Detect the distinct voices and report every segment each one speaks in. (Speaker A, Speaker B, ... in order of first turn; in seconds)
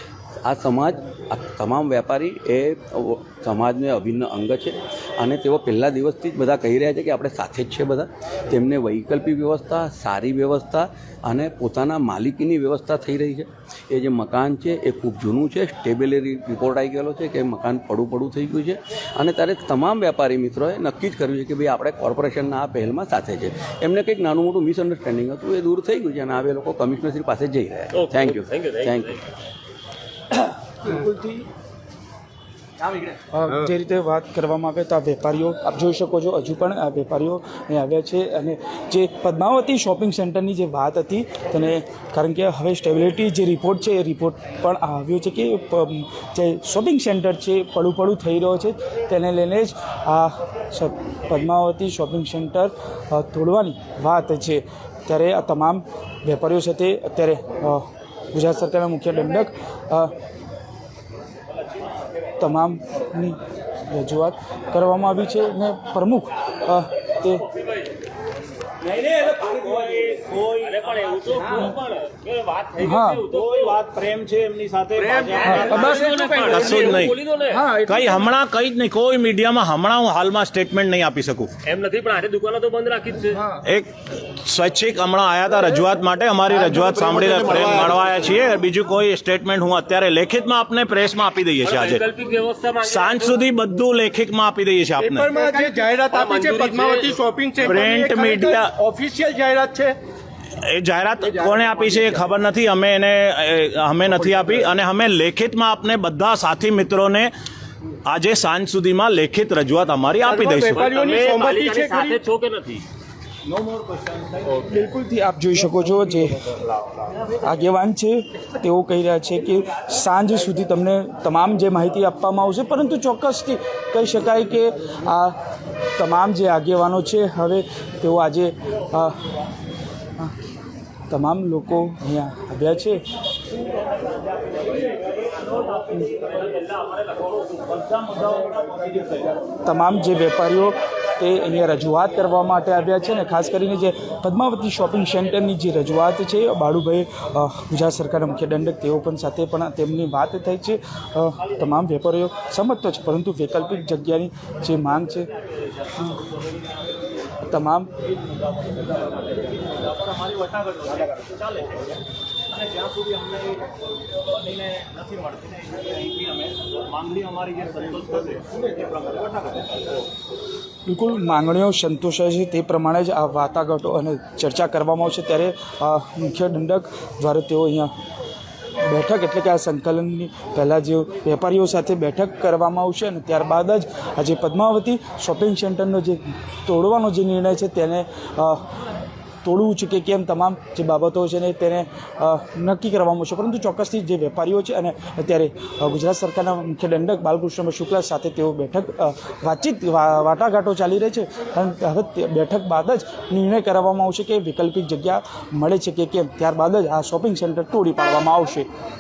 Speaker A: 0.4-29.2
Speaker B: 27.9-29.1, 68.9-73.8, 75.1-77.7, 81.7-83.5, 91.6-93.4, 95.3-97.2, 110.7-112.8, 136.2-136.5, 137.9-139.1, 160.1-161.4, 162.6-163.6, 164.4-169.7
Speaker C: 30.7-31.4, 33.3-60.1, 62.4-67.5, 72.8-73.2, 75.4-76.2, 114.5-116.6, 117.2-125.4, 126.0-129.2, 131.1-133.0, 139.6-155.3, 157.5-157.9, 170.9-177.9, 178.8-188.6, 189.4-208.7
Speaker D: 73.3-77.2, 77.7-81.5, 83.5-92.0, 92.8-95.3, 97.6-98.8, 100.6-107.3, 108.1-110.9
Speaker E: 75.0-77.0, 77.6-78.2, 86.5-88.3, 95.0-100.0, 101.4-102.0, 110.2-112.2